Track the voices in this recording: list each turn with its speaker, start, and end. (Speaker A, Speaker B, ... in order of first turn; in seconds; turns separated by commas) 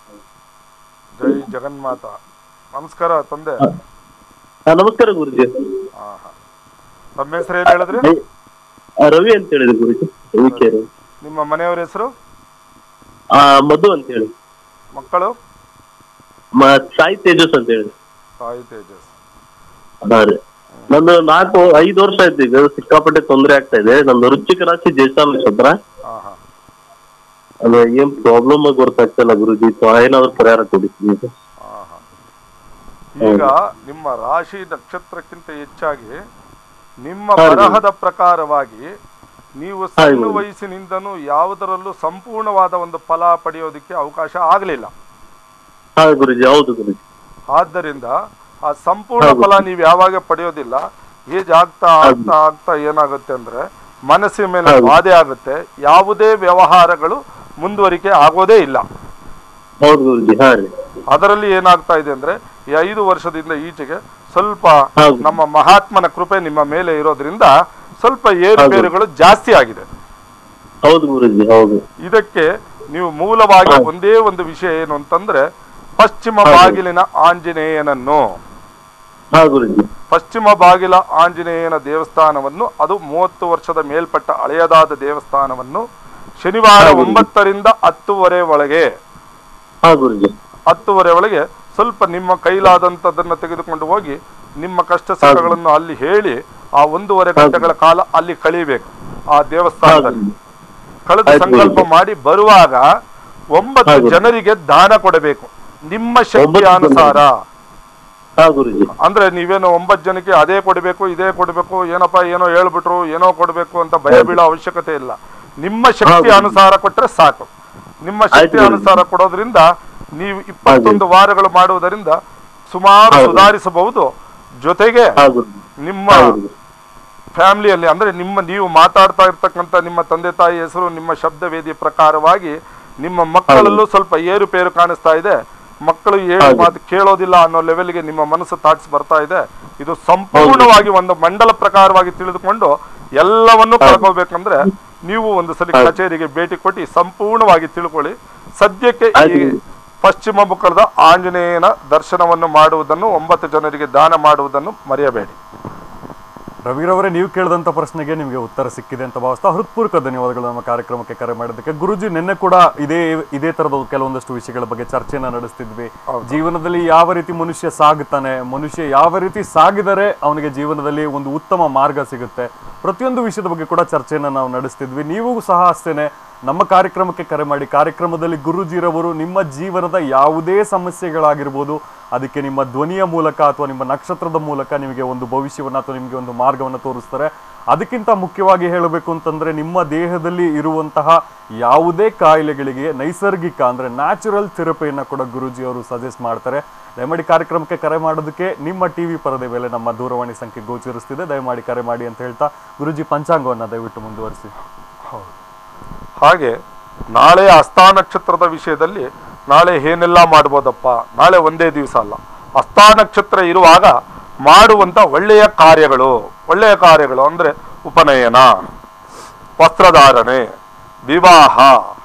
Speaker A: 1.2-2.1, Speaker A: 2.8-3.7, Speaker B: 4.7-5.5, Speaker A: 6.0-6.3, Speaker A: 7.2-8.1, Speaker B: 7.7-8.2, Speaker B: 9.0-10.9, Speaker A: 11.2-12.1, Speaker B: 13.3-14.3, Speaker A: 14.9-15.4, Speaker B: 16.6-17.9, Speaker A: 18.4-19.1, Speaker B: 20.0-20.4, Speaker B: 20.9-25.8, Speaker A: 26.1-26.4, Speaker B: 27.6-31.3, Speaker A: 31.6-32.0, Speaker A: 33.2-36.2, Speaker B: 33.2-33.5, Speaker A: 37.0-38.9, Speaker B: 37.4-37.8, Speaker A: 39.6-44.9, Speaker B: 40.0-40.4, Speaker B: 46.0-47.0, Speaker A: 47.5-48.1, Speaker A: 48.6-58.8, Speaker B: 49.2-49.6, Speaker B: 52.0-52.3, Speaker B: 54.7-54.9, Speaker B: 59.8-60.7, Speaker A: 61.1-67.5, Speaker B: 65.0-65.3, Speaker A: 68.0-69.8, Speaker B: 68.6-68.9, Speaker B: 70.8-71.8, Speaker A: 72.0-75.4, Speaker A: 76.0-78.2, Speaker B: 76.5-76.8, Speaker B: 79.3-79.9, Speaker A: 80.1-85.8, Speaker A: 86.4-88.9, Speaker B: 86.8-87.3, Speaker B: 89.8-90.3, Speaker A: 90.7-100.2, Speaker B: 95.2-95.5, Speaker B: 97.4-97.7, Speaker B: 99.8-100.3, Speaker A: 101.1-102.8, Speaker B: 101.3-101.9, Speaker A: 103.5-107.3, Speaker B: 103.9-104.2, Speaker B: 106.4-107.2, Speaker B: 108.4-108.9, Speaker A: 109.0-117.5, Speaker B: 114.1-114.4, Speaker B: 116.1-116.6, Speaker A: 118.0-122.2, Speaker B: 118.3-119.0, Speaker B: 120.7-121.0, Speaker A: 122.7-124.1, Speaker B: 123.1-123.5, Speaker A: 124.6-125.2, Speaker B: 125.2-126.5, Speaker A: 125.8-126.4, Speaker A: 127.4-155.4, Speaker B: 133.5-133.8, Speaker B: 136.4-136.7, Speaker B: 140.3-140.8, Speaker B: 143.8-144.1, Speaker B: 149.2-149.6, Speaker C: 156.7-204.5, Speaker A: 166.1-166.4, Speaker A: 206.2-206.6, Speaker A: 207.1-213.9, Speaker A: 214.4-218.5, Speaker A: 219.6-220.5, Speaker A: 221.1-221.8